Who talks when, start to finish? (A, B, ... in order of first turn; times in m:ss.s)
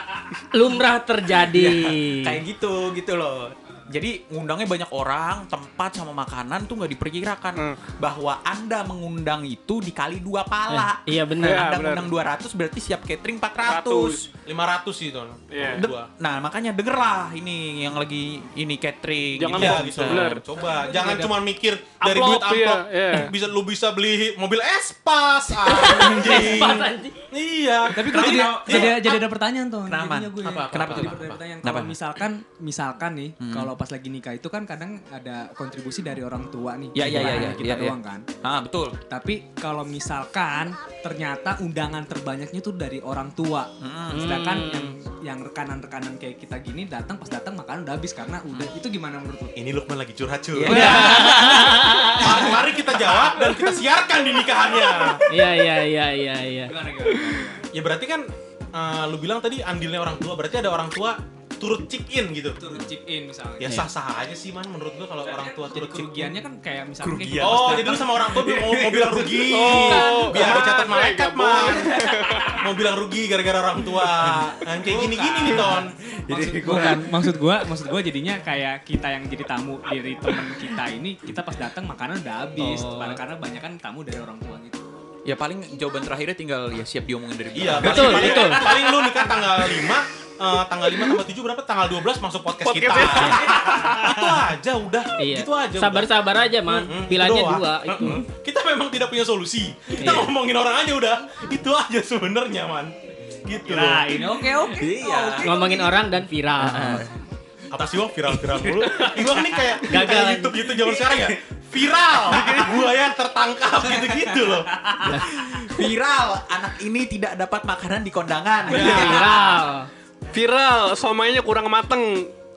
0:00.5-0:02.4 A
0:01.4-0:14.3 B
0:10.7-0:11.7 A
0:11.4-0:12.1 C
0:13.6-0:14.2 C
0:14.5-0:16.1 D
0:15.5-0:15.9 C
0:15.7-0:20.4 B
0:19.4-0:20.4 C
0:19.5-0:29.1 D
0:20.6-0:21.4 E
0:22.0-0:23.3 C
0:25.6-0:27.2 A
0:26.0-0:26.6 E
0:28.0-0:38.3 E
0:28.0-0:29.2 B
0:29.9-0:32.0 B
0:33.4-0:33.7 B
0:36.9-0:39.0 B
0:37.1-0:37.6 A
0:39.1-0:49.6 E
0:43.8-0:44.4 B
0:44.1-0:45.0 A
0:49.6-0:51.2 D
0:50.5-0:52.1 B
0:50.6-0:53.4 E
0:50.7-0:52.5 A
0:52.2-0:55.2 D
0:55.3-0:56.7 A
0:56.6-0:57.7 E
0:57.7-1:02.6 D
1:02.6-1:03.8 E
1:03.6-1:06.3 D
1:03.6-1:03.9 A
1:05.2-1:08.7 E
1:07.0-1:09.7 B
1:07.4-1:12.0 D
1:09.5-1:12.6 C
1:10.2-1:10.5 E
1:11.7-1:12.5 E
1:12.5-1:15.9 D
1:14.2-1:14.5 B
1:14.6-1:24.9 E
1:15.4-1:17.5 B
1:22.6-1:23.2 A
1:25.3-1:28.7 B
1:27.5-1:44.3 D
1:27.8-1:28.8 A
1:32.6-1:34.5 C
1:35.2-1:38.2 A
1:40.0-1:40.3 A
1:43.7-1:45.9 E
1:44.7-1:45.6 B
1:45.4-1:47.1 A
1:46.6-1:47.1 B
1:47.7-1:55.1 D
1:47.8-1:49.1 B
1:49.8-1:50.7 A
1:52.2-1:52.8 C
1:55.0-1:55.3 A
1:55.2-1:59.3 B
1:58.7-1:59.6 D
1:58.7-1:59.9 A
2:00.3-2:02.3 C